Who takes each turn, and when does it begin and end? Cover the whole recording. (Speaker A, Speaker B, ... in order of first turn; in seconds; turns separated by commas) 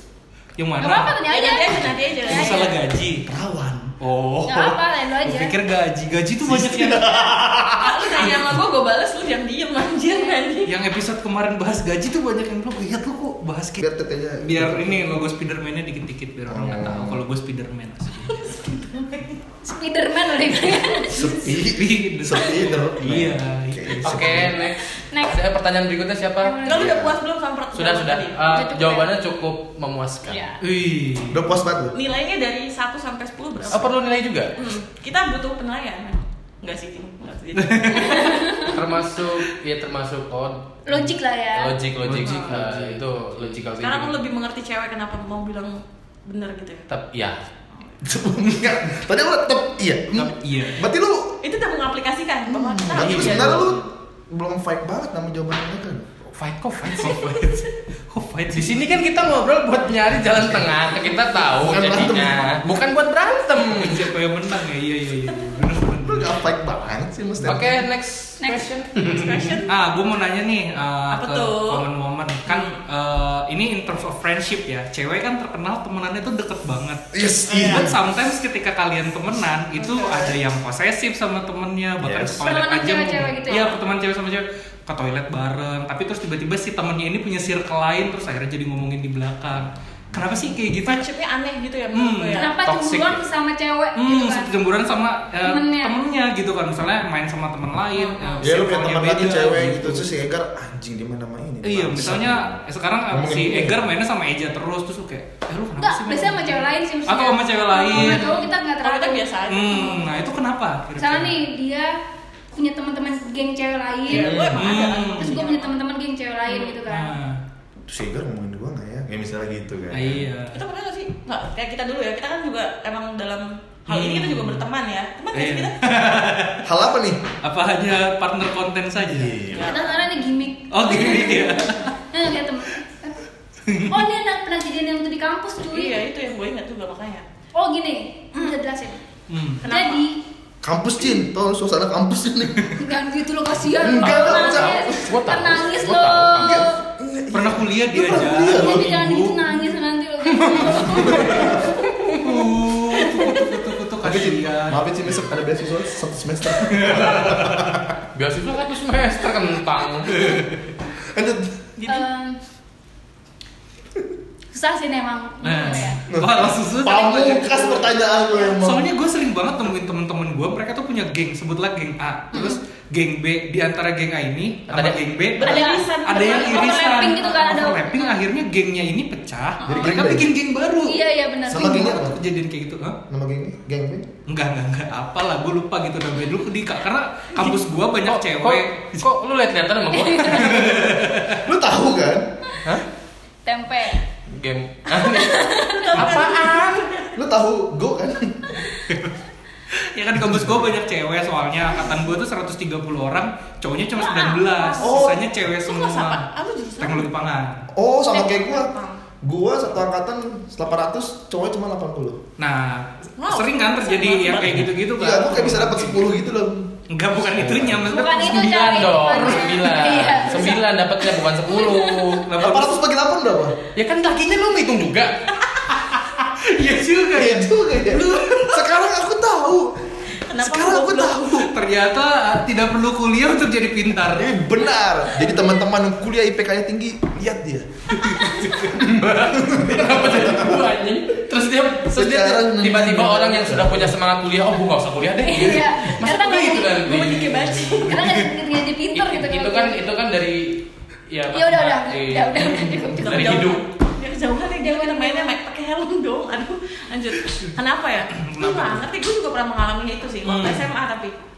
Speaker A: 0.6-1.2, Speaker B: 0.8-2.8, Speaker C: 1.2-2.8, Speaker A: 2.2-3.3, Speaker D: 3.2-3.9, Speaker A: 4.0-7.3, Speaker B: 4.5-5.5, Speaker D: 6.4-8.1, Speaker C: 7.7-10.7, Speaker B: 10.1-10.4, Speaker A: 10.7-13.8, Speaker D: 13.8-15.2, Speaker A: 14.4-18.6, Speaker D: 16.5-17.2, Speaker C: 18.2-19.4, Speaker B: 19.6-21.4, Speaker D: 21.1-24.6, Speaker A: 21.6-24.4, Speaker E: 24.0-26.9, Speaker B: 24.9-25.4, Speaker B: 26.4-26.9, Speaker C: 26.6-28.6, Speaker D: 26.7-27.1, Speaker E: 27.7-30.5, Speaker B: 28.5-29.1, Speaker B: 30.3-30.6, Speaker A: 30.6-31.5, Speaker D: 31.3-31.9, Speaker C: 31.9-34.0, Speaker E: 33.7-34.5, Speaker C: 34.5-38.5, Speaker A: 37.5-38.4, Speaker B: 37.9-38.8, Speaker E: 38.6-41.0, Speaker B: 40.9-41.7, Speaker E: 41.5-44.2, Speaker A: 42.0-43.4, Speaker C: 42.2-42.5, Speaker C: 43.8-46.9, Speaker E: 46.9-47.4, Speaker D: 48.0-51.4, Speaker A: 50.1-50.9, Speaker C: 51.4-53.9, Speaker D: 52.5-56.3, Speaker A: 53.0-53.8, Speaker E: 56.3-57.4, Speaker A: 56.9-58.9, Speaker C: 57.0-57.4, Speaker E: 58.5-64.1, Speaker D: 60.4-60.9, Speaker D: 61.4-62.6, Speaker A: 63.7-66.4, Speaker D: 66.0-67.8, Speaker E: 67.4-69.5, Speaker B: 68.4-68.7, Speaker C: 69.0-69.7, Speaker A: 69.7-91.1, Speaker C: 71.1-71.8, Speaker C: 72.5-72.8, Speaker D: 77.1-77.9, Speaker C: 77.5-77.9, Speaker C: 80.0-80.3, Speaker D: 82.0-82.5, Speaker B: 82.4-83.8, Speaker C: 90.8-92.6, Speaker A: 91.9-92.4, Speaker B: 92.3-94.5, Speaker E: 92.6-93.2, Speaker A: 93.9-100.0, Speaker B: 95.4-96.0, Speaker C: 97.9-98.5, Speaker D: 98.4-102.5, Speaker A: 101.6-108.4, Speaker D: 103.1-103.9, Speaker B: 105.8-109.3, Speaker C: 107.9-110.3, Speaker A: 109.5-111.4, Speaker B: 111.0-112.0, Speaker B: 112.5-117.2, Speaker C: 114.1-115.8, Speaker D: 114.1-114.5, Speaker A: 114.5-115.4, Speaker C: 116.5-116.8, Speaker A: 116.8-117.4, Speaker D: 117.8-120.2, Speaker A: 119.9-120.6, Speaker C: 120.5-125.8, Speaker A: 123.9-124.6, Speaker A: 125.3-126.7, Speaker D: 126.6-127.2, Speaker A: 127.4-129.4, Speaker D: 129.1-129.8, Speaker C: 129.5-130.0, Speaker B: 129.6-133.2, Speaker A: 130.7-131.9, Speaker A: 133.6-134.0, Speaker B: 133.8-136.0, Speaker C: 135.7-137.2, Speaker B: 137.5-139.0, Speaker A: 139.3-139.6, Speaker C: 139.6-140.0, Speaker B: 139.6-140.2, Speaker D: 140.6-142.7, Speaker B: 142.8-146.8, Speaker D: 143.8-145.1, Speaker E: 143.9-146.7, Speaker D: 146.4-149.1, Speaker A: 147.3-149.6, Speaker B: 148.4-152.2, Speaker E: 150.2-151.1, Speaker A: 150.5-154.8, Speaker D: 150.8-151.8, Speaker B: 152.9-153.6, Speaker D: 154.0-157.9, Speaker A: 156.7-157.5, Speaker E: 156.9-157.4, Speaker E: 158.1-160.4, Speaker A: 160.2-160.6, Speaker D: 161.1-161.5, Speaker C: 161.8-162.1, Speaker B: 161.9-162.4, Speaker B: 164.5-166.0, Speaker A: 165.4-167.9, Speaker D: 166.1-168.9, Speaker A: 168.5-183.0, Speaker B: 172.3-172.6, Speaker E: 174.7-175.0, Speaker C: 175.4-177.7, Speaker B: 175.4-178.0, Speaker B: 179.6-179.9, Speaker D: 179.7-180.3, Speaker B: 180.8-182.0, Speaker D: 181.5-182.2, Speaker D: 183.1-184.1, Speaker A: 184.3-189.1, Speaker E: 188.0-191.1, Speaker B: 189.9-190.7, Speaker A: 190.3-191.4, Speaker D: 191.3-192.2, Speaker B: 193.4-194.0, Speaker E: 194.3-196.8, Speaker C: 195.0-197.2, Speaker B: 195.0-196.2, Speaker D: 197.2-198.6, Speaker A: 198.9-199.2, Speaker A: 199.7-206.2, Speaker D: 200.2-200.7, Speaker C: 203.9-205.1, Speaker D: 204.8-205.2, Speaker C: 205.6-207.1, Speaker A: 206.8-207.7, Speaker D: 207.7-208.7, Speaker C: 208.1-209.0, Speaker D: 209.2-212.2, Speaker A: 212.4-216.1, Speaker C: 213.2-214.7, Speaker D: 214.9-217.8, Speaker A: 216.9-219.2, Speaker B: 217.8-222.1, Speaker E: 218.1-222.3, Speaker A: 222.2-222.8, Speaker D: 222.4-223.6, Speaker E: 223.7-225.3, Speaker A: 225.7-228.7, Speaker D: 227.1-229.7, Speaker C: 230.1-231.4, Speaker D: 230.3-231.5, Speaker A: 231.3-234.3, Speaker D: 234.1-237.9, Speaker A: 238.0-238.7, Speaker E: 238.7-248.1, Speaker D: 238.8-240.7, Speaker D: 241.9-243.9, Speaker B: 245.2-249.8, Speaker C: 246.7-248.0, Speaker E: 248.9-253.6, Speaker B: 251.3-253.5, Speaker C: 253.0-261.1, Speaker B: 254.6-255.4, Speaker A: 258.1-258.8, Speaker A: 260.2-260.7